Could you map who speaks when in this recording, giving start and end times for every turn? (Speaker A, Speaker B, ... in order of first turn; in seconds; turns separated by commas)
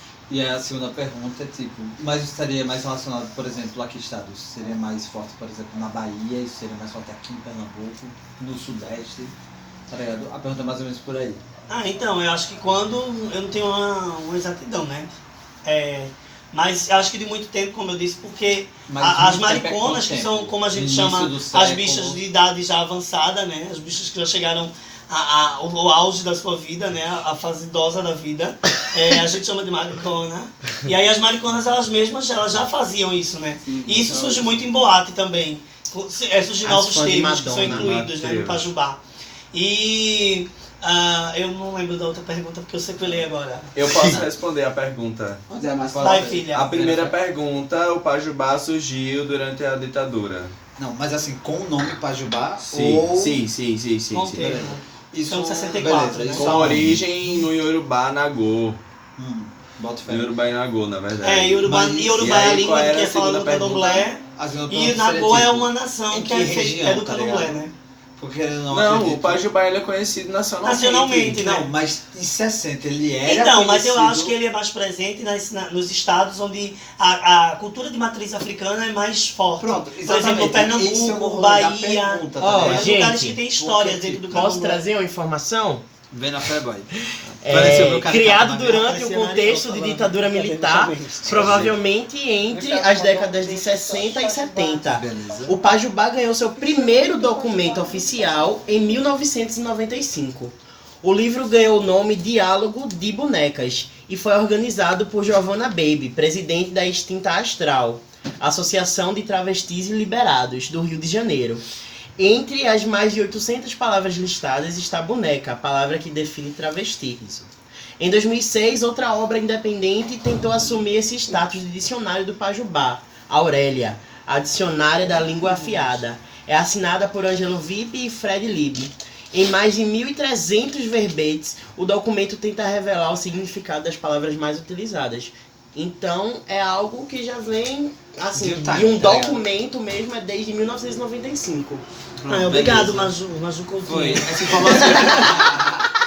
Speaker A: 0.3-9.3, Speaker A: 9.9-11.4, Speaker B: 11.7-15.1, Speaker B: 15.7-39.0, Speaker A: 18.9-22.2, Speaker C: 33.6-34.5, Speaker D: 36.6-38.0, Speaker E: 37.6-38.7, Speaker B: 39.5-43.7, Speaker E: 43.8-45.4, Speaker A: 43.9-44.3, Speaker C: 45.5-46.5, Speaker A: 45.9-47.1, Speaker B: 46.0-46.7, Speaker E: 46.5-50.5, Speaker A: 50.8-53.5, Speaker E: 52.6-54.6, Speaker B: 54.1-56.7, Speaker A: 54.4-57.4, Speaker E: 56.3-58.8, Speaker A: 59.2-60.3, Speaker E: 60.1-64.1, Speaker B: 61.2-67.7, Speaker A: 61.7-62.1, Speaker A: 64.3-67.6, Speaker A: 68.2-69.4, Speaker E: 68.7-71.4, Speaker B: 70.6-71.7, Speaker A: 71.2-74.4, Speaker B: 73.2-84.8, Speaker A: 79.6-84.5, Speaker D: 82.4-83.4, Speaker D: 84.3-85.8, Speaker A: 86.1-88.9, Speaker D: 87.4-111.6, Speaker B: 88.7-91.6, Speaker A: 91.2-91.8, Speaker A: 94.8-95.6, Speaker D: 112.2-141.8, Speaker A: 138.3-139.5, Speaker A: 142.2-143.1, Speaker B: 142.3-145.4, Speaker A: 143.8-145.8, Speaker C: 145.5-145.8